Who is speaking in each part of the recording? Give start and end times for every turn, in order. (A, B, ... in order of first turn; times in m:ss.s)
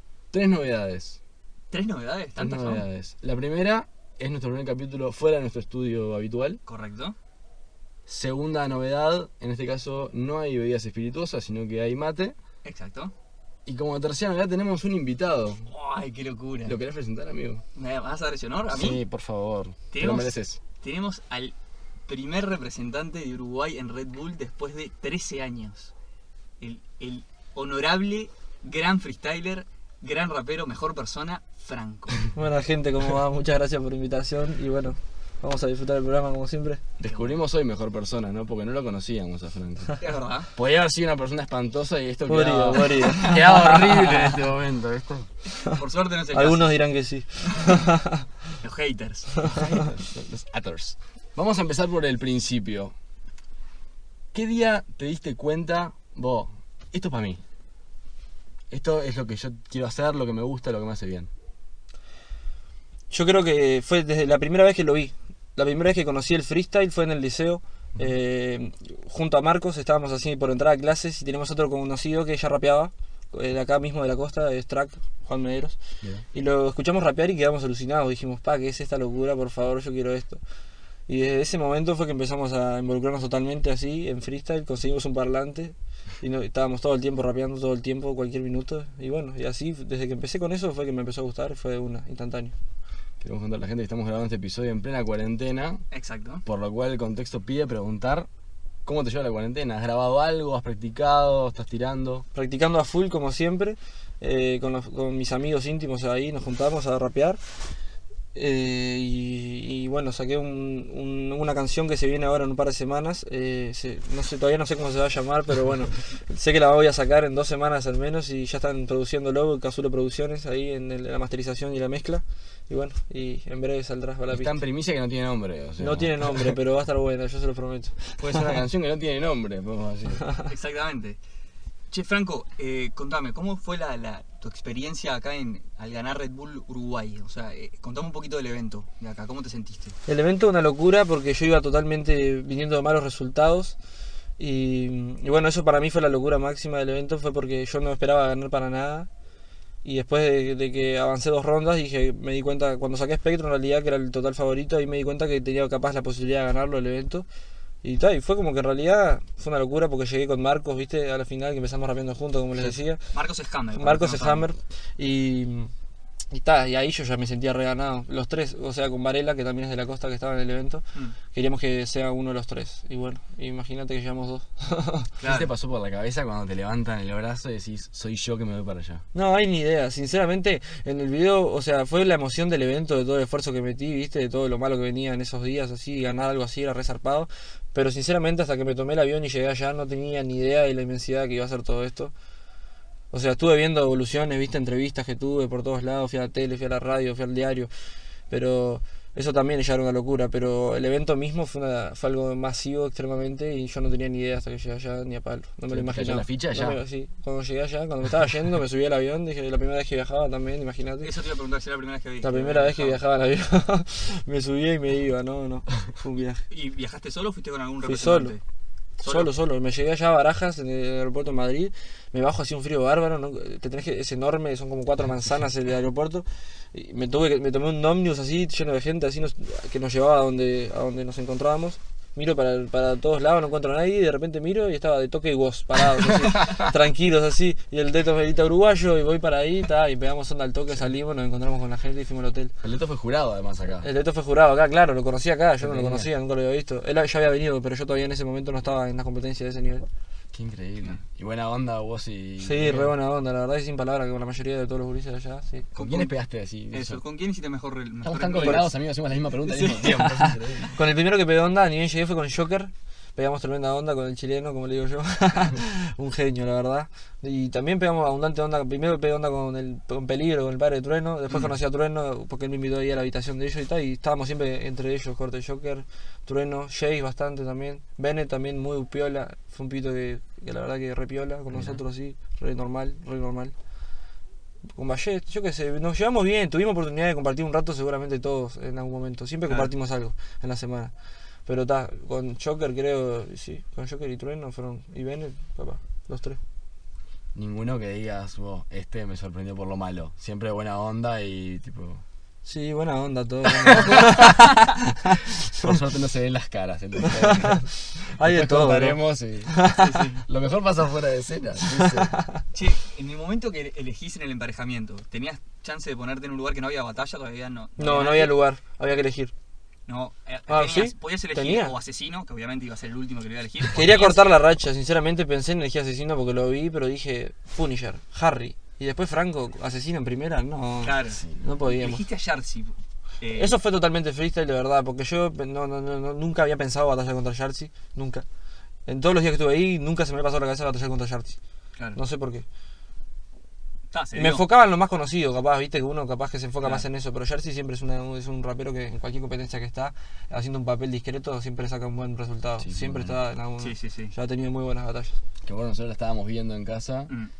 0:00.3-0:01.2 A
0:01.7-0:02.8 B
0:02.4-0:06.6 A
0:06.7-0:07.1 B
0:08.1-0:12.4 A
0:12.6-0:13.1 B
0:13.6-0:15.7 A
0:15.7-0:16.8 B
0:16.6-0:17.6 A
0:17.7-0:19.0 B
0:18.7-0:20.6 A
0:19.9-0:21.5 B
0:22.1-0:25.9 B
0:26.6-0:32.3 B
0:32.3-0:36.8 C
0:37.0-0:40.0 A
0:40.0-0:40.5 B
0:40.5-0:45.3 A
0:42.3-0:44.2 C
0:43.1-0:43.9 B
0:45.5-0:46.7 B
0:46.3-0:48.2 C
0:48.6-0:49.9 B
0:49.5-0:52.9 A
0:54.3-0:57.4 A
0:58.7-1:01.3 A
1:03.1-1:15.8 C
1:16.3-1:20.4 C
1:21.1-1:32.5 C
1:33.2-1:35.8 A
1:35.9-1:36.4 B
1:36.4-1:38.3 A
1:38.8-1:42.2 A
1:42.3-1:47.4 C
1:48.3-2:04.6 C
2:04.3-2:06.6 A
2:05.8-2:08.5 C
2:08.2-2:10.2 A
2:10.5-2:11.2 B
2:11.9-2:20.0 B
2:20.1-2:23.8 C
2:24.4-2:29.1 C
2:29.8-2:37.2 C
2:37.8-2:43.0 C
2:43.1-2:44.5 B
2:43.7-2:45.7 C
2:46.3-2:55.1 C
2:55.2-2:55.5 B
2:55.2-2:59.0 A
2:59.1-3:12.1 C
3:13.1-3:17.7 C
3:18.3-3:31.1 C
3:25.7-3:26.8 A
3:31.0-3:33.0 B
3:32.2-3:36.4 C
3:36.5-3:38.4 B
3:37.8-3:38.4 C
3:39.0-3:39.3 B
3:39.0-4:02.5 C
4:02.6-4:03.9 A
4:03.8-4:09.9 C
4:05.6-4:06.1 A
4:10.3-4:12.9 A
4:12.4-4:15.7 C
4:15.7-4:16.1 B
4:15.8-4:17.0 A
4:16.7-4:18.7 B
4:18.0-4:20.7 A
4:18.4-4:18.6 C
4:19.5-4:20.0 B
4:19.6-4:43.5 C
4:41.5-4:41.8 A
4:44.7-4:50.9 C
4:51.4-4:56.4 C
4:57.3-5:02.0 A
5:02.4-5:05.8 C
5:03.6-5:04.6 A
5:05.1-5:12.2 A
5:07.0-5:10.0 C
5:09.8-5:10.2 B
5:11.8-5:12.4 C
5:12.5-5:18.3 B
5:17.8-5:19.3 C
5:19.9-5:24.4 B
5:20.5-5:21.8 C
5:23.7-5:32.0 C
5:30.8-5:33.6 B
5:31.1-5:31.4 A
5:33.3-5:38.2 C
5:38.9-5:41.4 C
5:41.9-5:42.4 C
5:43.9-5:44.4 B
5:44.2-5:55.2 C
5:52.6-5:53.2 A
5:53.6-5:54.1 B
5:55.4-5:57.1 A